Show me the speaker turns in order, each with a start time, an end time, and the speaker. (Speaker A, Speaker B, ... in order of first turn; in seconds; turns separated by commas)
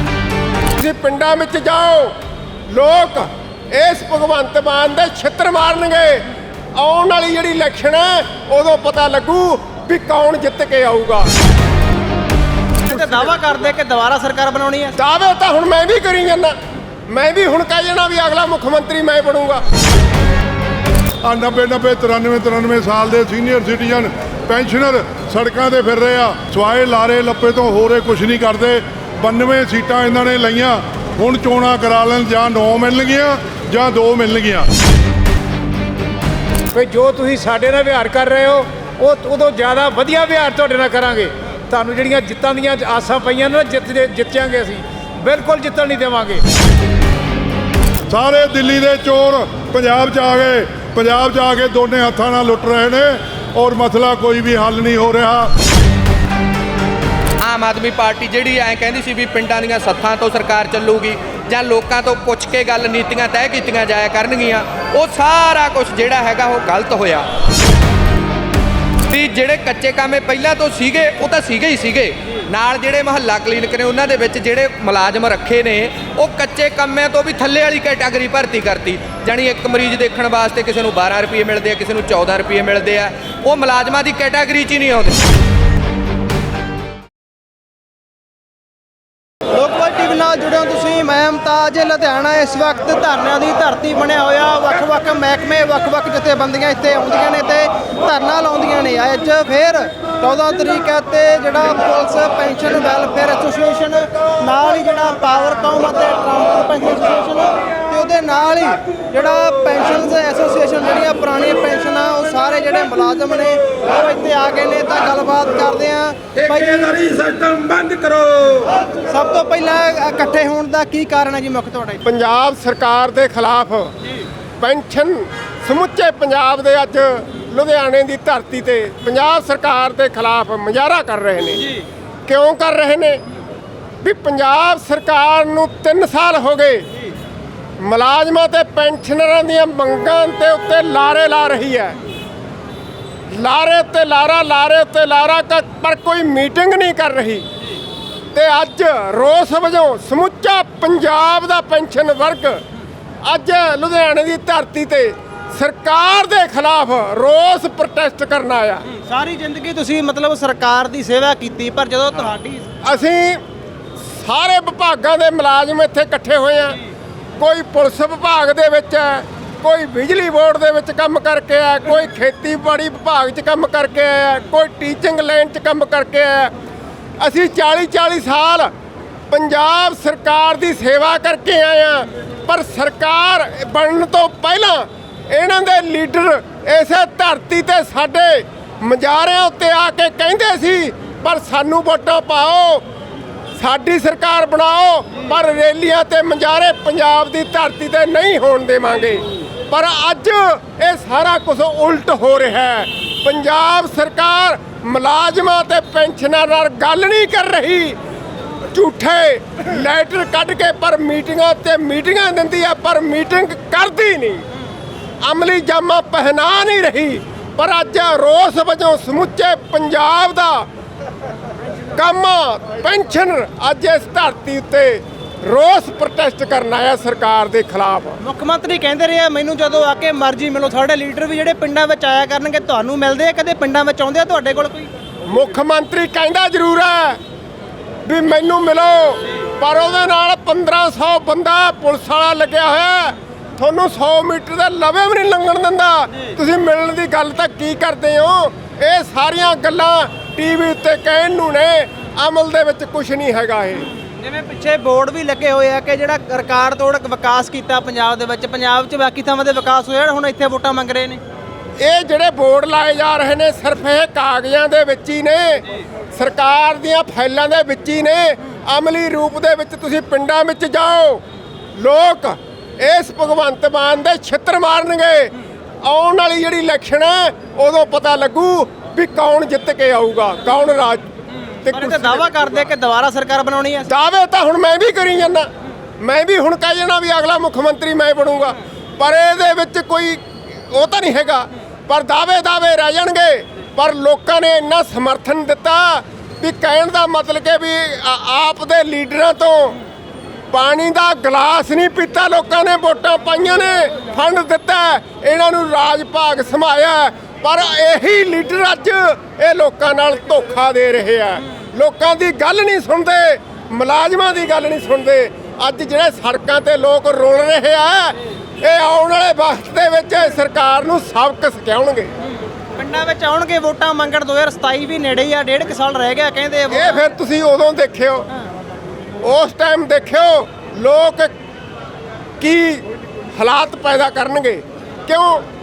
Speaker A: 0.8-2.2, Speaker A: 2.7-11.3, Speaker B: 12.8-14.9, Speaker A: 15.0-16.6, Speaker A: 17.1-19.6, Speaker C: 21.2-34.7, Speaker D: 36.7-46.4, Speaker C: 48.1-55.5, Speaker E: 57.4-67.3, Speaker E: 69.1-85.2, Speaker B: 89.5-117.3, Speaker A: 117.5-118.2, Speaker B: 119.0-122.0, Speaker A: 122.0-123.9, Speaker A: 124.6-131.7, Speaker A: 132.3-133.2, Speaker A: 134.0-136.9, Speaker A: 137.8-142.0, Speaker A: 143.3-147.5, Speaker A: 148.3-152.6, Speaker A: 153.2-158.8, Speaker B: 158.9-162.7, Speaker A: 162.8-163.4, Speaker A: 164.0-166.8, Speaker A: 167.4-176.5, Speaker A: 177.2-178.7, Speaker A: 179.3-192.8, Speaker A: 193.6-208.0, Speaker A: 208.7-214.4, Speaker A: 215.2-220.7, Speaker A: 221.9-228.2, Speaker B: 228.2-234.9, Speaker A: 235.3-237.2, Speaker A: 238.1-253.9, Speaker B: 254.2-261.2, Speaker A: 261.8-271.2, Speaker A: 271.8-281.1, Speaker A: 281.6-282.3, Speaker B: 281.7-283.9, Speaker A: 283.9-285.5, Speaker A: 286.0-299.8, Speaker A: 300.5-322.1, Speaker B: 322.8-327.0, Speaker A: 326.7-328.3, Speaker A: 329.2-331.3, Speaker A: 332.4-335.4